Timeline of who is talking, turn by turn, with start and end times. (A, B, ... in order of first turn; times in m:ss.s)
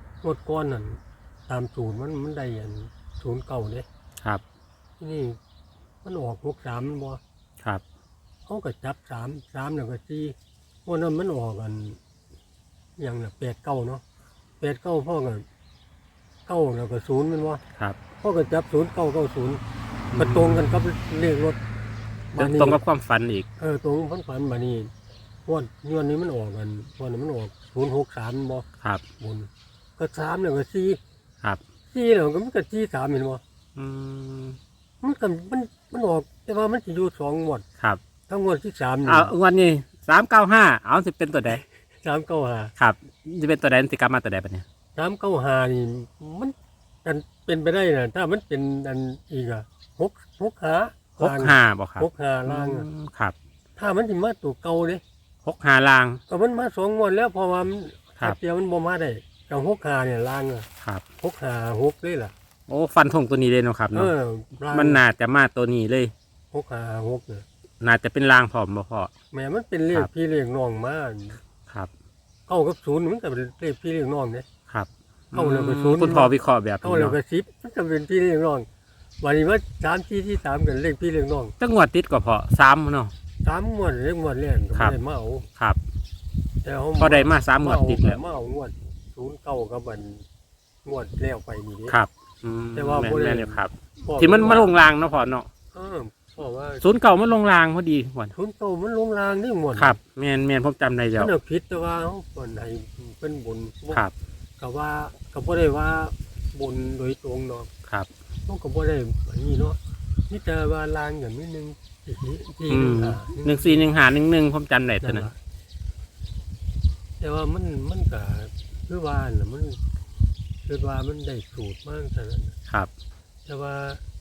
0:00.2-0:03.8 A
0:05.0-0:05.4 A
0:06.0-0:07.2 A
0:08.4-0:12.0 A
0:13.0-0:14.0 A
0:14.6-0:15.4 A
0:16.4-0:17.6 A
0:18.2-0:19.6 A
0:20.1-0:20.6 B
0:20.2-0:21.6 A
0:22.3-0:22.8 A
0:22.4-0:23.5 B
0:23.6-0:24.9 A
0:25.4-0:28.6 A
0:29.2-0:31.0 A
0:31.9-0:33.4 A
0:33.8-0:34.6 B
0:35.0-0:37.6 A
0:38.3-0:39.3 A
0:39.1-0:41.6 B
0:42.0-0:42.7 A
0:42.8-0:44.6 B
0:45.0-0:52.9 A
0:51.2-0:53.4 B
0:53.8-0:55.0 A
0:55.4-0:56.2 B
0:56.3-1:00.7 A
1:01.2-1:02.3 A
1:02.7-1:04.1 B
1:03.9-1:05.0 A
1:04.7-1:06.1 B
1:06.5-1:07.4 A
1:07.8-1:09.1 B
1:09.3-1:11.4 A
1:12.5-1:14.5 A
1:14.7-1:17.2 B
1:15.3-1:18.7 A
1:19.2-1:21.5 A
1:21.6-1:23.1 B
1:23.4-1:25.4 A
1:26.6-1:30.2 A
1:27.0-1:28.2 B
1:30.8-1:32.0 A
1:31.9-1:35.5 B
1:32.7-1:34.7 A
1:35.7-1:36.8 A
1:36.8-1:38.3 B
1:38.3-1:40.0 A
1:39.8-1:41.3 B
1:41.2-1:44.0 A
1:44.6-1:47.7 A
1:48.4-1:49.8 A
1:50.3-1:53.9 A
1:52.7-1:55.3 B
1:55.0-1:55.4 A
1:57.2-1:59.8 A
2:00.6-2:02.5 A
2:03.4-2:04.0 A